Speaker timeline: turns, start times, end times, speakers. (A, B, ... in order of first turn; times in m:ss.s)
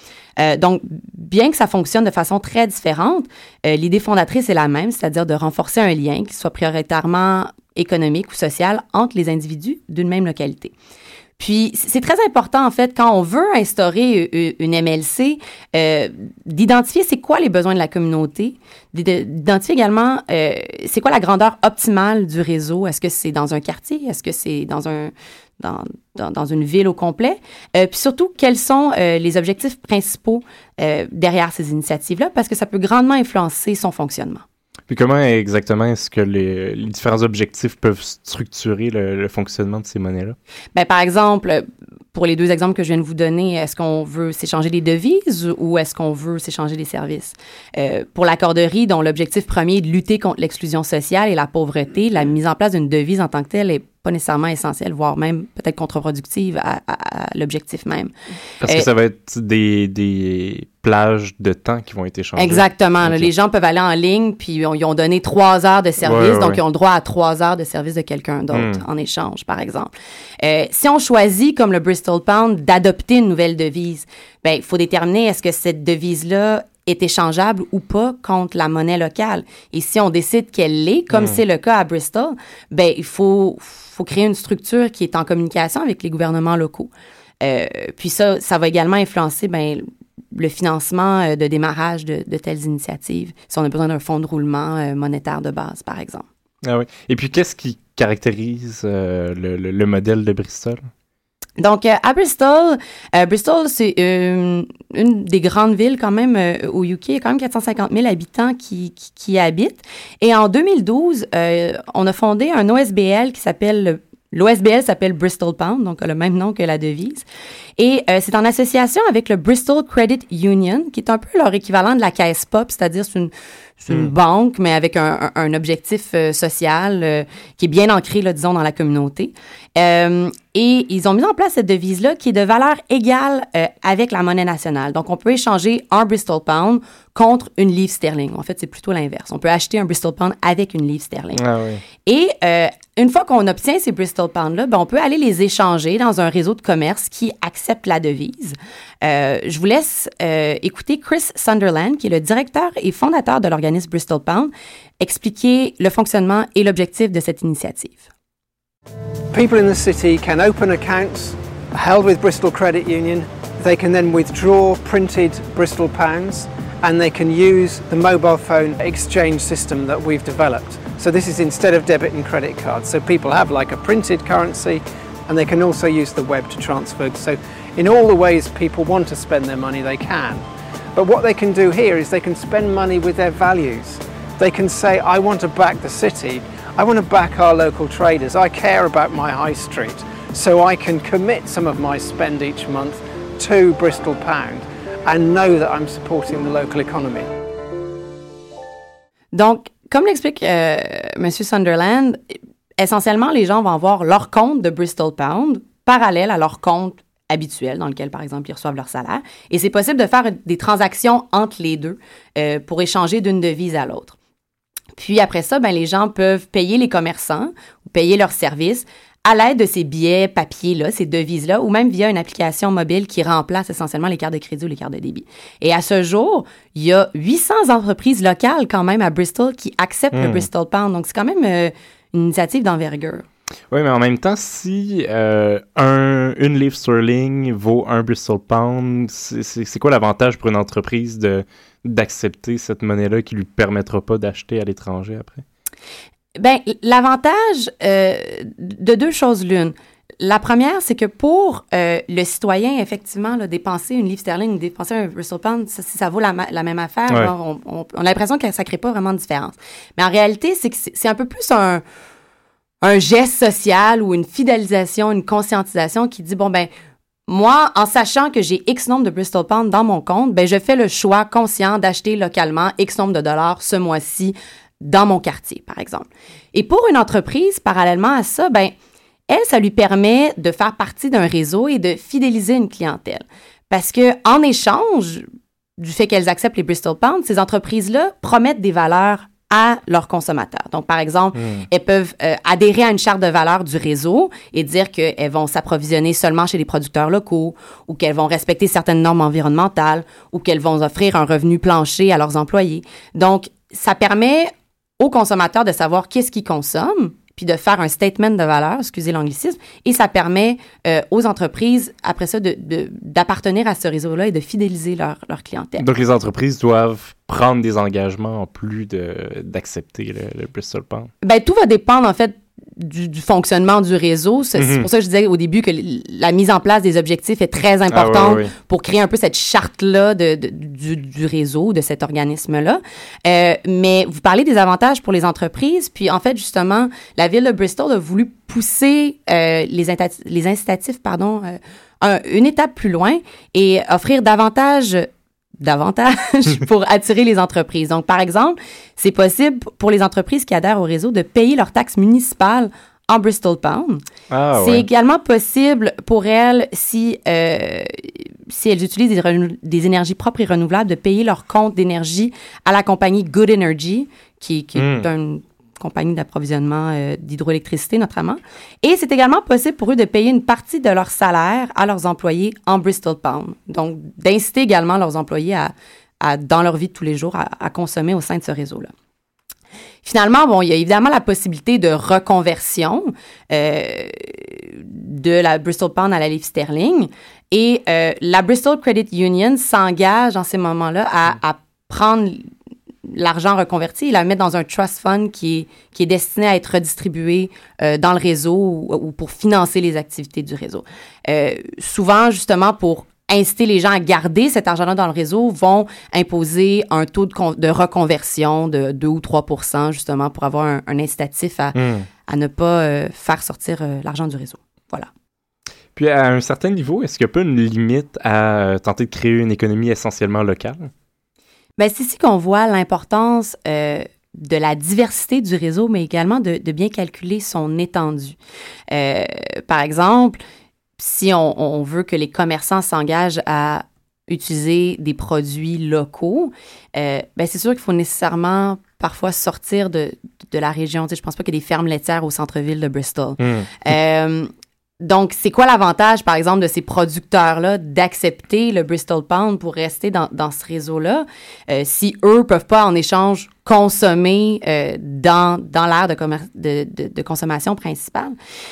0:00.4-0:10.7 A
0:11.4-0:34.4 A
0:34.9-0:40.4 B
0:40.7-0:58.1 A
0:58.6-1:03.3 B
1:02.4-1:26.9 A
1:06.0-1:06.6 B
1:08.5-1:08.8 B
1:21.1-1:21.4 B
1:27.4-1:36.2 A
1:36.6-1:40.9 B
1:41.6-1:57.2 A
1:57.8-2:21.4 A
2:21.4-2:21.8 B
2:22.0-2:38.1 A
2:39.3-3:17.3 C
3:19.3-3:22.2 A
3:22.8-3:34.2 A
3:35.0-3:53.2 A
3:50.1-3:50.5 B
3:53.7-4:05.4 B
4:06.4-4:21.8 A
4:22.8-4:26.7 A
4:27.3-4:38.7 A
4:39.3-4:45.2 A
4:45.8-5:15.9 A
4:51.4-4:51.7 B
5:15.8-5:21.1 B
5:21.2-5:45.1 A
5:24.6-5:24.9 B
5:27.9-5:28.5 B
5:45.6-5:54.0 A
5:54.3-5:54.9 B
5:54.6-6:18.9 A
6:04.8-6:05.1 B
6:20.0-6:32.5 A
6:33.1-6:51.8 A
6:51.8-6:52.1 B
6:52.3-6:55.1 A
6:56.0-7:00.9 B
7:01.8-7:08.4 A
7:08.9-7:10.4 A
7:11.0-7:24.5 A
7:23.4-7:23.7 B
7:25.0-7:38.4 A